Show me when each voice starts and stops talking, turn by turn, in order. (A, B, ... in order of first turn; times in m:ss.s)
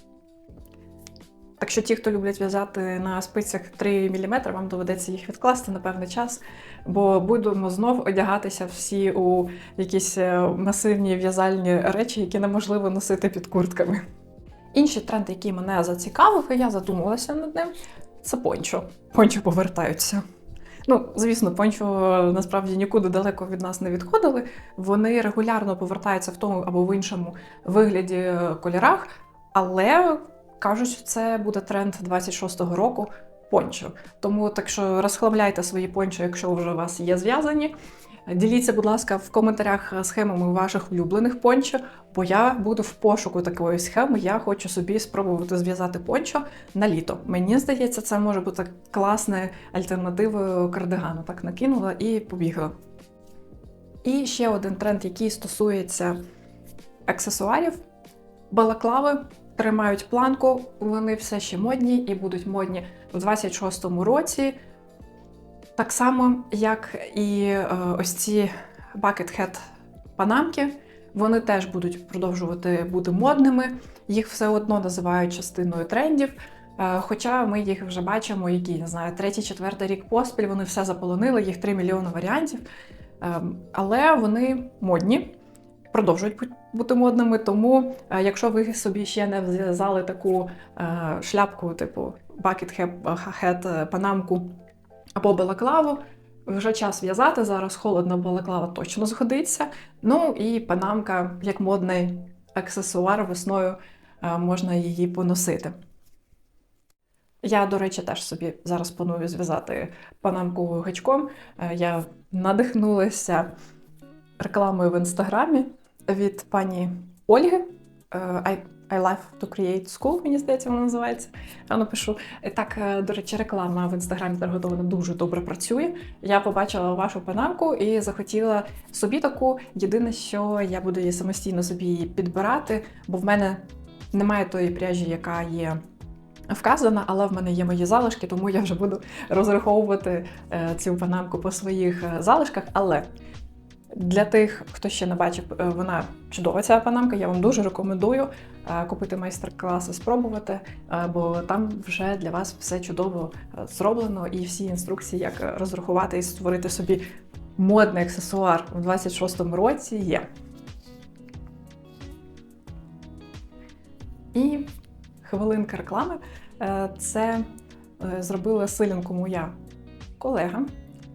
0:01.6-0:14.0 A
0:14.7-0:20.2 A
0:20.8-0:37.7 A
0:38.3-0:52.7 A
0:54.0-0:56.2 A
0:57.1-0:57.8 A
0:58.5-1:04.6 A
1:05.8-1:09.6 A
1:10.2-1:22.6 A
1:23.2-1:25.4 A
1:25.9-1:34.6 A
1:35.2-1:45.7 A
1:47.4-1:53.5 A
1:54.4-2:15.8 A
2:16.5-2:23.1 A
2:23.9-2:37.0 A
2:37.6-2:40.2 A
2:44.3-2:44.7 A
2:45.2-2:47.4 A
2:48.0-2:49.5 A
2:50.2-2:50.7 A